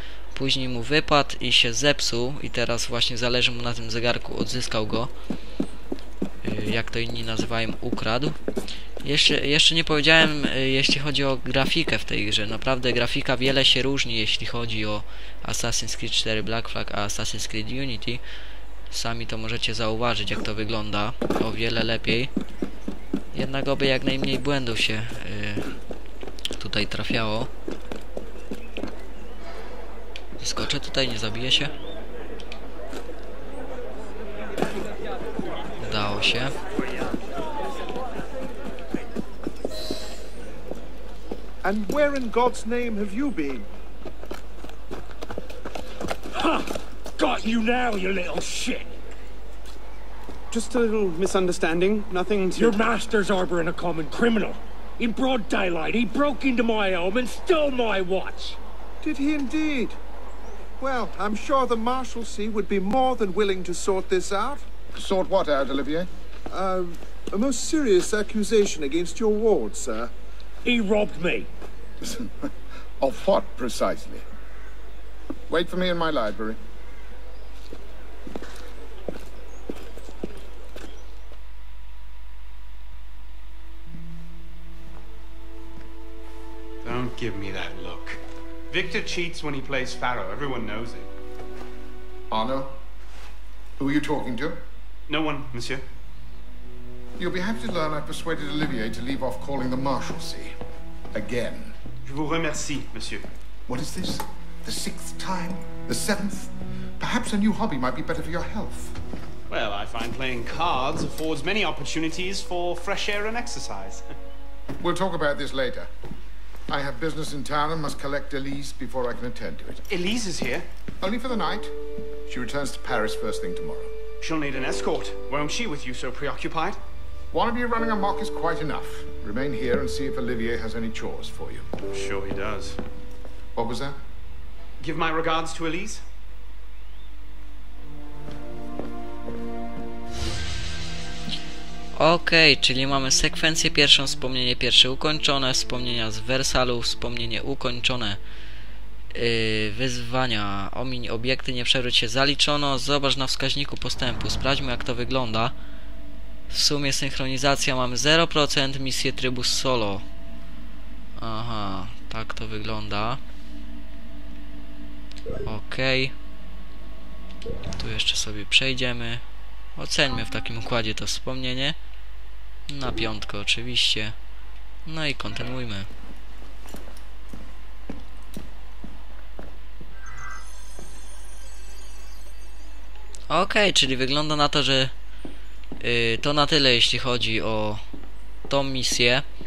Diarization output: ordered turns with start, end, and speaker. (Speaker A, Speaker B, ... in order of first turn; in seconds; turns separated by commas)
Speaker A: 0.3-5.1, Speaker A: 6.4-8.4, Speaker A: 9.0-18.2, Speaker A: 18.9-22.3, Speaker A: 23.3-25.6, Speaker A: 26.6-27.5, Speaker A: 30.4-31.7, Speaker A: 35.8-36.5, Speaker B: 41.6-43.7, Speaker C: 46.3-48.9, Speaker D: 50.5-52.8, Speaker C: 52.5-58.6, Speaker B: 59.0-60.0, Speaker B: 60.8-64.7, Speaker E: 65.0-66.1, Speaker B: 66.5-70.1, Speaker C: 70.6-71.5, Speaker E: 72.0-72.3, Speaker E: 73.0-74.2, Speaker E: 75.5-76.6, Speaker D: 86.8-88.2, Speaker D: 88.7-91.1, Speaker E: 92.3-92.8, Speaker E: 93.8-94.6, Speaker D: 95.1-95.8, Speaker E: 97.2-100.5, Speaker E: 101.1-101.8, Speaker D: 102.0-103.3, Speaker E: 103.7-109.0, Speaker D: 109.5-114.1, Speaker E: 114.8-115.9, Speaker E: 116.7-119.8, Speaker D: 119.9-120.6, Speaker E: 121.0-121.7, Speaker E: 122.3-123.9, Speaker D: 124.2-126.8, Speaker E: 127.3-131.6, Speaker D: 131.9-132.8, Speaker E: 133.6-134.0, Speaker D: 134.8-136.0, Speaker A: 142.0-148.2, Speaker A: 149.1-155.5, Speaker A: 156.5-160.0, Speaker A: 161.2-163.2, Speaker A: 165.4-166.1, Speaker A: 167.8-169.2, Speaker A: 169.8-171.8, Speaker A: 172.7-174.1, Speaker A: 174.8-175.9, Speaker A: 183.3-184.9, Speaker A: 185.8-187.8, Speaker A: 188.5-189.2